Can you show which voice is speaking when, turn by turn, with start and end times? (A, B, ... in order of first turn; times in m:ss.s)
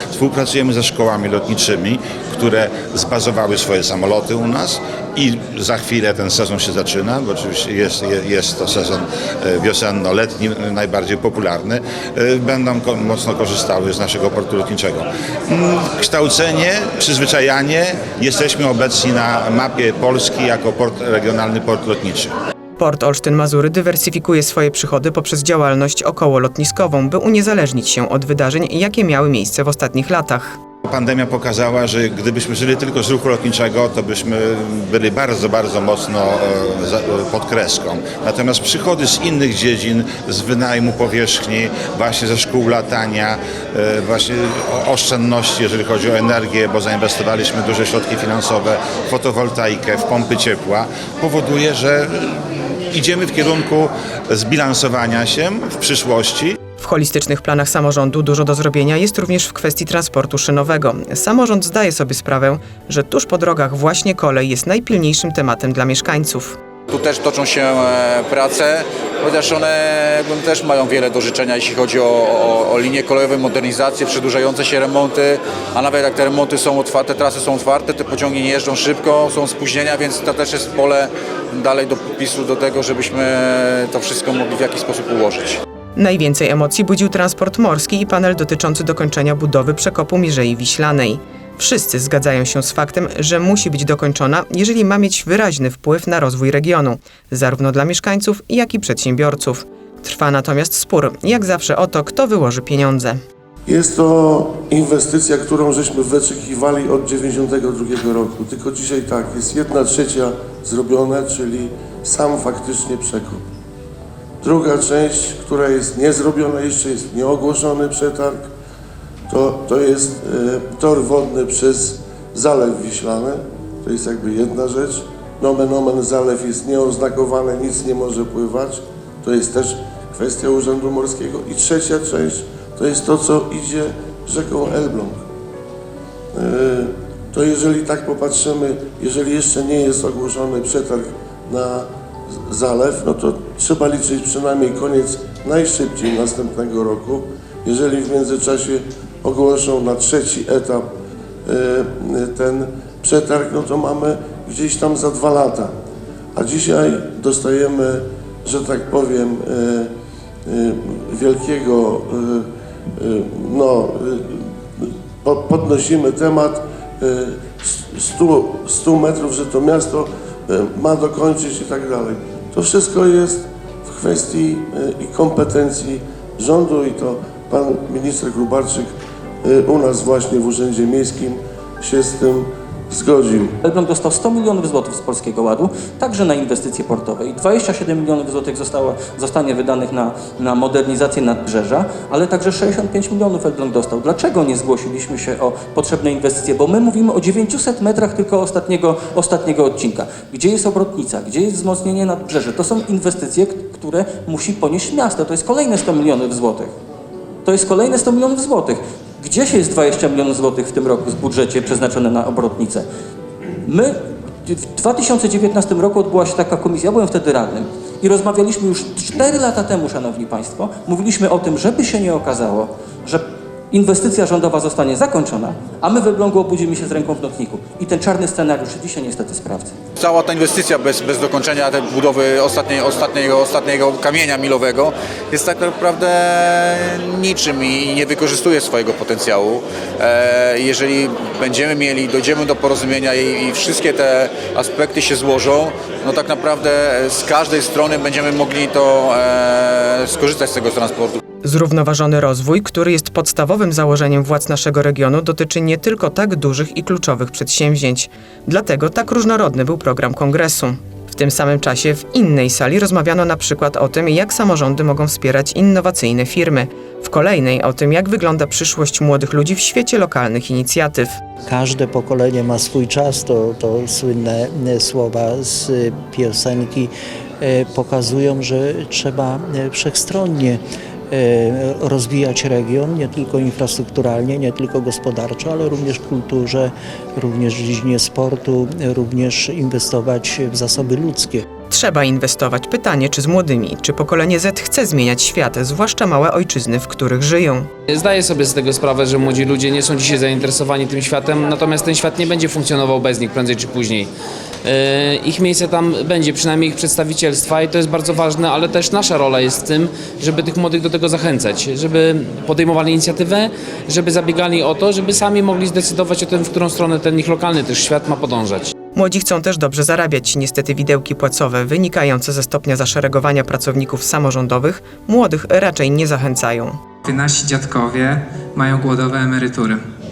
0:00.2-0:22.3 A
0:22.8-0:30.6 B
0:30.9-0:56.6 A
0:56.8-1:06.6 B
1:06.9-1:25.6 C
1:26.0-1:43.2 B
1:43.6-1:53.4 D
1:54.4-1:58.4 D
1:59.3-2:15.2 D
2:16.3-2:21.9 D
2:22.5-2:30.8 D
2:31.4-2:35.7 D
2:36.3-2:39.9 D
2:40.5-2:42.4 D
2:43.0-2:58.9 D
2:59.4-3:03.5 D
3:03.6-3:26.7 E
3:27.4-3:32.8 E
3:33.6-3:49.7 E
3:50.0-4:11.2 C
4:11.4-4:31.2 B
4:31.4-4:51.4 F
4:51.7-4:57.7 B
4:57.9-5:04.1 G
5:04.6-5:18.7 G
5:18.9-5:26.8 B
5:27.0-5:29.8 H